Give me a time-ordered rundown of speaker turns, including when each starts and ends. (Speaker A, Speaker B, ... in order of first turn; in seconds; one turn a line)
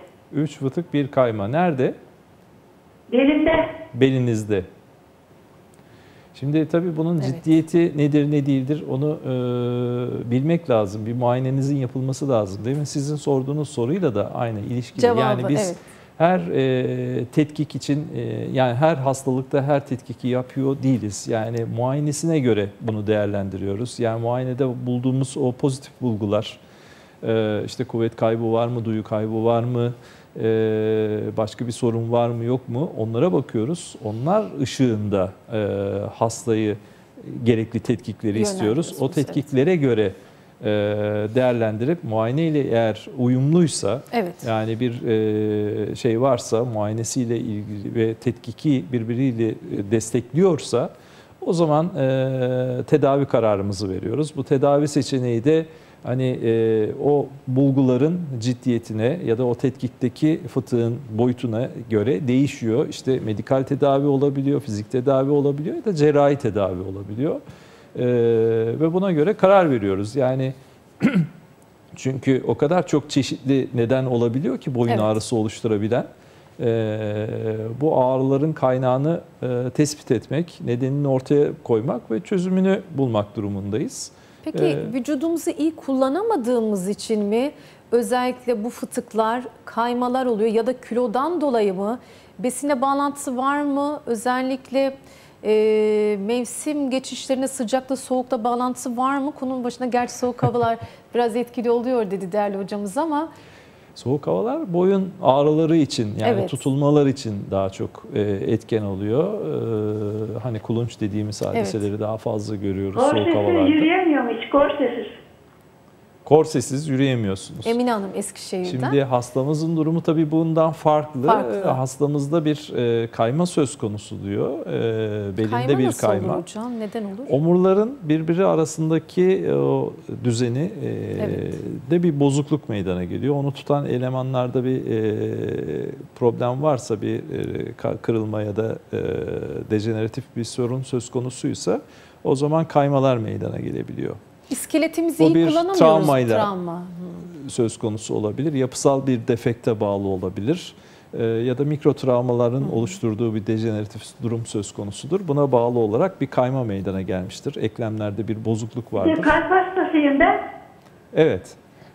Speaker A: 0.3-1.9
Speaker B: 3.1-3.7
Speaker A: 3.9-4.7
Speaker A: 6.3-26.6
Speaker C: 15.0-15.8
Speaker A: 27.2-67.4
Speaker C: 38.3-39.4
Speaker C: 44.1-44.5
Speaker A: 67.9-71.3
Speaker A: 71.9-76.1
Speaker C: 74.9-75.2
Speaker A: 76.6-84.9
Speaker C: 84.5-103.3
Speaker A: 104.0-113.9
Speaker C: 106.2-106.7
Speaker C: 111.5-111.9
Speaker B: 112.9-115.1
Speaker A: 116.2-117.8
Speaker C: 117.6-119.0
Speaker A: 118.6-126.4
Speaker C: 121.2-121.8
Speaker C: 125.4-127.4
Speaker A: 127.3-144.2
Speaker C: 131.2-131.5
Speaker C: 144.5-147.3
Speaker A: 145.2-146.5
Speaker A: 147.3-159.3
Speaker C: 152.6-152.9
Speaker B: 159.0-160.4
Speaker A: 161.1-161.6